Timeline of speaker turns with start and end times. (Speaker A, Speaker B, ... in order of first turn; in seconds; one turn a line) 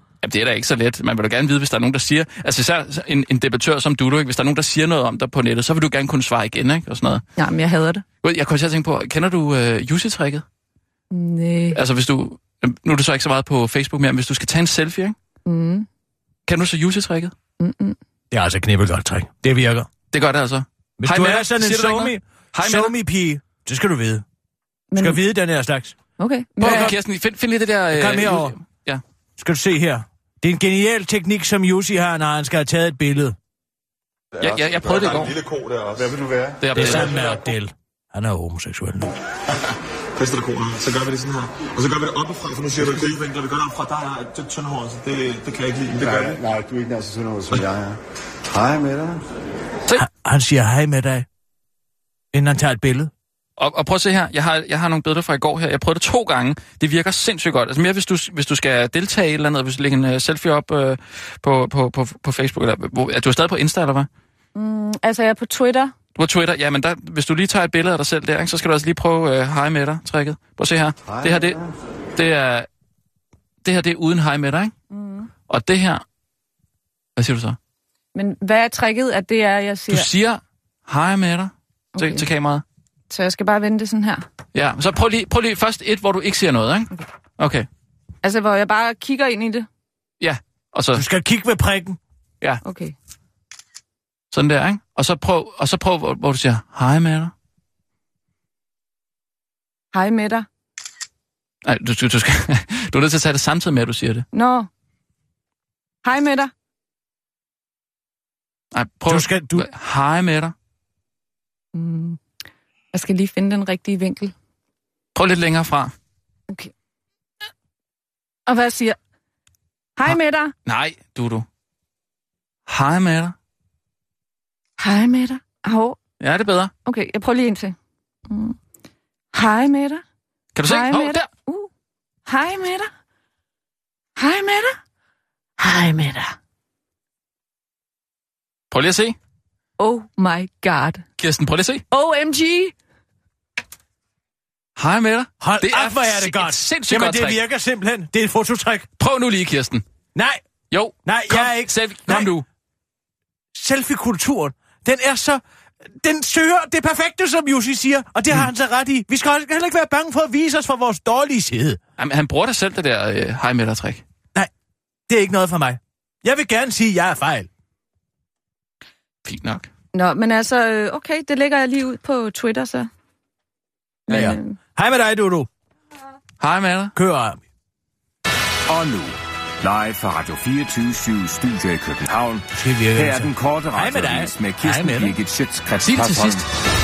Speaker A: 0.2-7.2
Speaker B: 7.4-8.0
Speaker A: 8.2-10.4
Speaker B: 11.1-11.8
Speaker A: 11.7-15.1
Speaker B: 15.4-15.9
Speaker A: 16.5-17.3
Speaker B: 17.6-18.0
Speaker C: 18.3-19.9
Speaker A: 20.1-22.9
Speaker C: 21.0-24.2
Speaker B: 24.9-25.2
Speaker C: 24.9-25.9
Speaker B: 26.2-26.9
Speaker C: 26.6-26.9
Speaker A: 26.6-29.0
Speaker C: 27.9-28.5
Speaker C: 29.4-33.4
Speaker A: 34.4-35.3
Speaker D: 34.5-36.2
Speaker E: 36.0-36.5
Speaker A: 36.6-37.2
Speaker C: 36.7-39.1
Speaker D: 40.1-46.4
Speaker E: 46.0-48.0
Speaker E: 48.5-49.2
Speaker C: 50.0-51.2
Speaker C: 52.3-53.1
Speaker A: 53.6-64.1
Speaker B: 64.5-65.9
Speaker A: 66.2-71.6
Speaker E: 71.0-71.7
Speaker A: 72.2-72.7
Speaker A: 73.6-74.7
Speaker B: 74.9-75.3
Speaker A: 75.5-76.0
Speaker A: 77.2-77.6
Speaker B: 78.1-80.1
Speaker A: 79.9-82.6
Speaker B: 82.0-82.2
Speaker B: 83.1-84.2
Speaker A: 84.5-87.7
Speaker B: 88.2-89.7
Speaker A: 90.2-91.0
Speaker C: 90.9-92.0
Speaker B: 92.6-92.9
Speaker A: 94.3-97.3
Speaker B: 99.9-100.5
Speaker A: 101.6-104.3
Speaker B: 104.3-104.7
Speaker B: 106.0-106.5
Speaker A: 108.7-110.5
Speaker C: 109.0-109.7
Speaker B: 111.7-112.2
Speaker B: 112.9-114.3
Speaker A: 115.1-115.9
Speaker B: 118.5-119.0
Speaker B: 120.0-120.5
Speaker A: 120.7-121.5
Speaker A: 122.7-123.3
Speaker B: 124.8-126.0
Speaker A: 126.2-126.7
Speaker B: 126.8-127.8
Speaker B: 128.3-128.6
Speaker B: 129.3-130.0
Speaker A: 130.5-131.3
Speaker B: 130.6-131.7
Speaker B: 132.2-132.9
Speaker B: 134.2-134.8
Speaker B: 135.6-136.3
Speaker A: 138.7-139.2
Speaker B: 139.8-141.0
Speaker A: 141.2-141.8
Speaker B: 141.9-142.7
Speaker A: 144.8-147.4
Speaker C: 145.4-148.9
Speaker A: 149.0-149.8
Speaker C: 150.1-150.4
Speaker A: 150.7-152.4
Speaker C: 151.0-152.3
Speaker C: 153.5-155.4
Speaker C: 156.0-161.8
Speaker A: 162.0-164.0
Speaker C: 165.1-167.5
Speaker A: 169.2-169.7
Speaker B: 169.9-172.9
Speaker B: 174.1-174.6
Speaker C: 174.1-175.5
Speaker A: 176.4-176.9
Speaker C: 176.9-177.4
Speaker F: 178.7-186.4
Speaker C: 182.5-185.2
Speaker A: 185.8-186.4